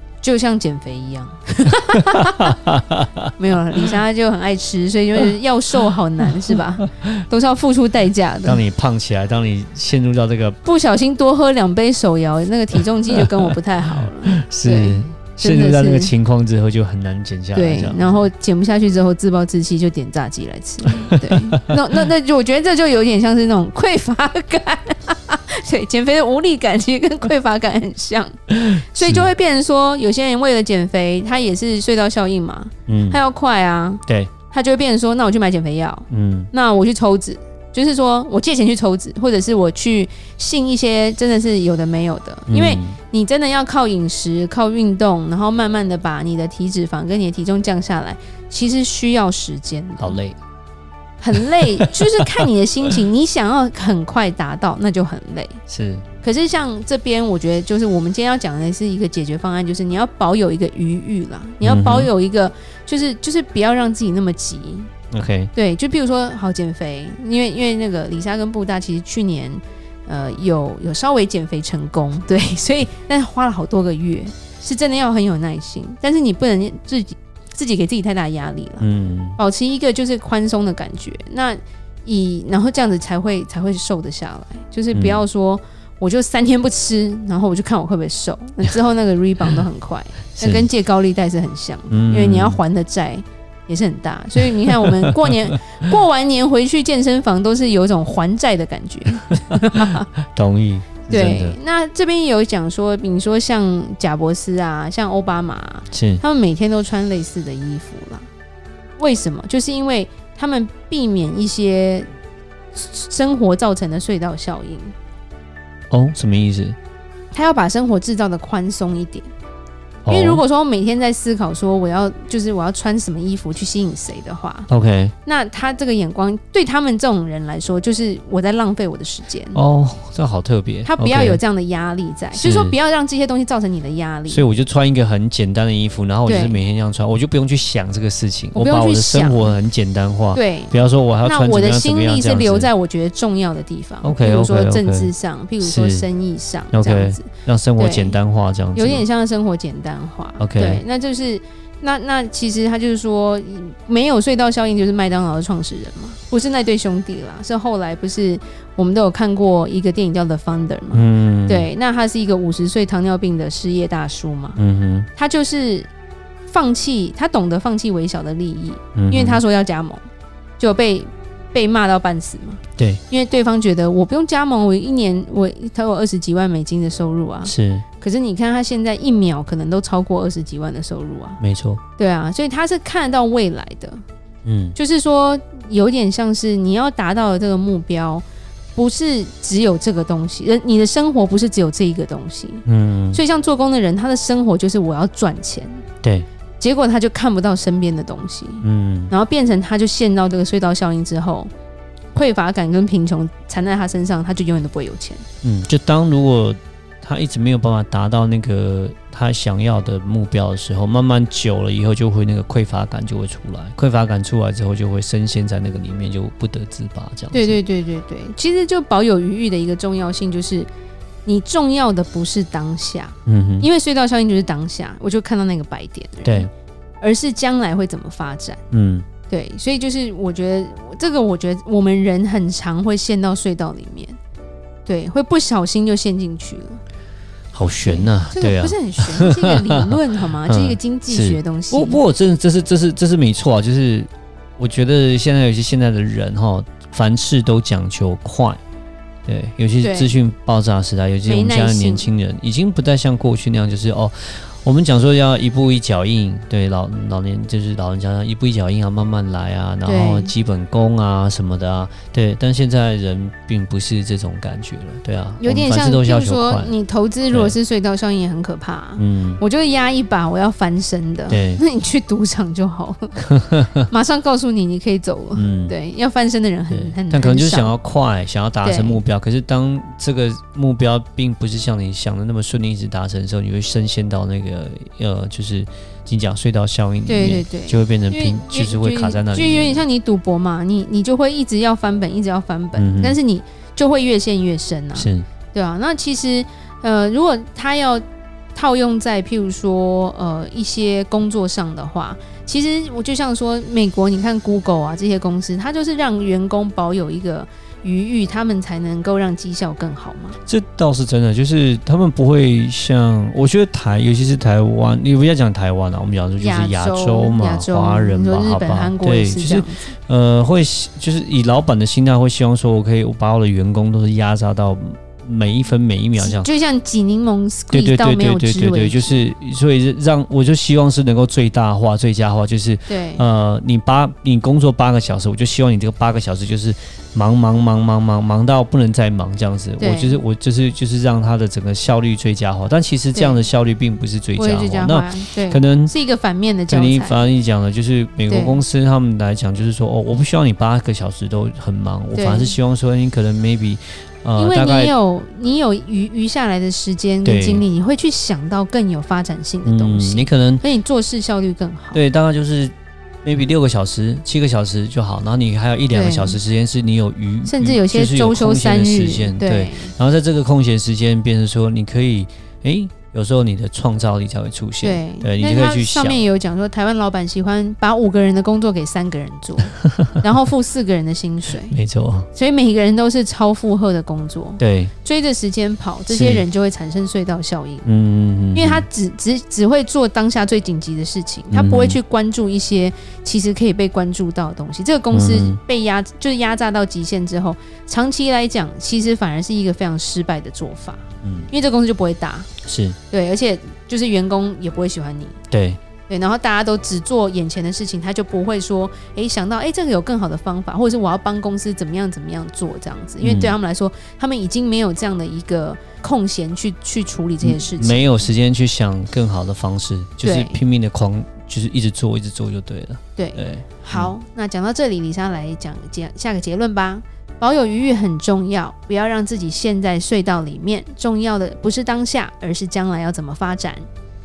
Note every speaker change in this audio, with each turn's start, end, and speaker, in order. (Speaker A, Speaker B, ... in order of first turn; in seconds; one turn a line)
Speaker A: 0.2-2.5
Speaker B: 1.9-3.3
Speaker A: 3.4-8.6
Speaker B: 6.9-7.2
Speaker B: 8.4-10.6
Speaker A: 10.6-16.1
Speaker B: 14.2-18.1
Speaker A: 17.5-50.2
Speaker B: 20.9-21.7
Speaker B: 28.6-29.3
Speaker B: 32.9-33.2
Speaker B: 34.1-34.3
Speaker B: 36.1-36.5
Speaker B: 42.5-43.0
Speaker B: 50.0-50.4
Speaker A: 51.2-55.6
Speaker B: 51.8-52.4
Speaker B: 55.7-56.0
Speaker A: 56.2-64.9
Speaker B: 61.6-62.1
Speaker B: 65.1-65.5
Speaker A: 65.5-100.1
Speaker B: 78.8-79.4
Speaker B: 84.9-85.2
Speaker B: 90.4-90.7
Speaker B: 91.9-92.6
Speaker B: 94.8-95.5
Speaker B: 99.7-101.6
Speaker A: 101.1-108.3
Speaker B: 105.9-106.2
Speaker A: 109.0-112.1
Speaker A: 112.7-114.9
Speaker B: 115.9-116.8
Speaker A: 117.3-119.3
Speaker B: 120.0-120.4
Speaker A: 120.1-124.7
Speaker B: 124.7-125.1
Speaker A: 125.3-129.6
Speaker B: 129.5-131.4
Speaker A: 130.8-134.5
Speaker B: 132.3-132.7
Speaker B: 134.3-142.7
Speaker A: 136.3-136.6
Speaker A: 138.6-139.6
Speaker A: 140.3-148.2
Speaker B: 144.0-146.1
Speaker B: 146.7-149.0
Speaker A: 148.7-164.6
Speaker B: 150.4-150.8
Speaker B: 160.9-161.7
Speaker B: 164.6-165.1
Speaker A: 165.2-165.9
Speaker A: 166.5-170.0
Speaker B: 168.9-169.4
Speaker A: 170.6-181.4
Speaker B: 177.4-177.8
Speaker B: 181.4-181.8
Speaker A: 182.0-184.0
Speaker B: 184.4-184.8
Speaker A: 184.8-188.2
Speaker A: 188.8-195.8
Speaker B: 192.7-193.2
Speaker A: 196.6-201.5
Speaker B: 198.6-199.1
Speaker A: 202.2-205.2
Speaker B: 205.4-217.6
Speaker A: 217.3-220.7
Speaker A: 221.3-226.5
Speaker B: 223.3-223.7
Speaker B: 226.2-226.5
Speaker A: 227.0-228.6
Speaker B: 228.7-229.1
Speaker A: 229.3-234.2
Speaker A: 234.8-236.8
Speaker B: 237.5-239.9
Speaker A: 237.8-242.0
Speaker B: 240.4-248.6
Speaker B: 249.3-266.7
Speaker A: 249.8-250.2
Speaker A: 251.3-252.1
Speaker A: 259.9-260.3
Speaker A: 265.4-273.2
Speaker B: 267.3-267.6
Speaker B: 269.0-269.4
Speaker B: 271.3-271.6
Speaker B: 273.3-273.8
Speaker A: 273.9-277.7
Speaker B: 275.3-275.7
Speaker B: 276.7-289.8
Speaker A: 278.6-279.0
Speaker A: 287.1-310.4
Speaker B: 292.8-293.2
Speaker B: 294.9-295.3
Speaker B: 310.4-326.5
Speaker A: 316.4-319.9
Speaker A: 326.2-329.2
Speaker B: 327.7-345.9
Speaker A: 332.9-333.2
Speaker A: 339.8-340.2
Speaker A: 343.1-343.4
Speaker A: 344.4-347.2
Speaker B: 346.7-354.9
Speaker A: 348.3-348.6
Speaker A: 352.1-352.6
Speaker A: 354.4-362.0
Speaker B: 357.2-357.6
Speaker B: 359.6-360.6
Speaker B: 361.9-376.2
Speaker A: 365.9-366.4
Speaker A: 367.4-369.9
Speaker A: 374.8-381.8
Speaker B: 379.9-380.2
Speaker B: 381.7-382.3
Speaker A: 382.3-387.9
Speaker B: 384.6-384.9
Speaker B: 386.1-386.4
Speaker B: 387.8-388.9
Speaker A: 388.6-402.5
Speaker B: 391.5-392.0
Speaker B: 395.1-395.6
Speaker B: 401.2-401.5
Speaker B: 402.6-403.0
Speaker A: 403.1-405.4
Speaker B: 405.5-405.8
Speaker A: 406.1-418.3
Speaker B: 413.2-413.5
Speaker B: 417.4-424.1
Speaker A: 420.2-420.6
Speaker A: 423.2-433.8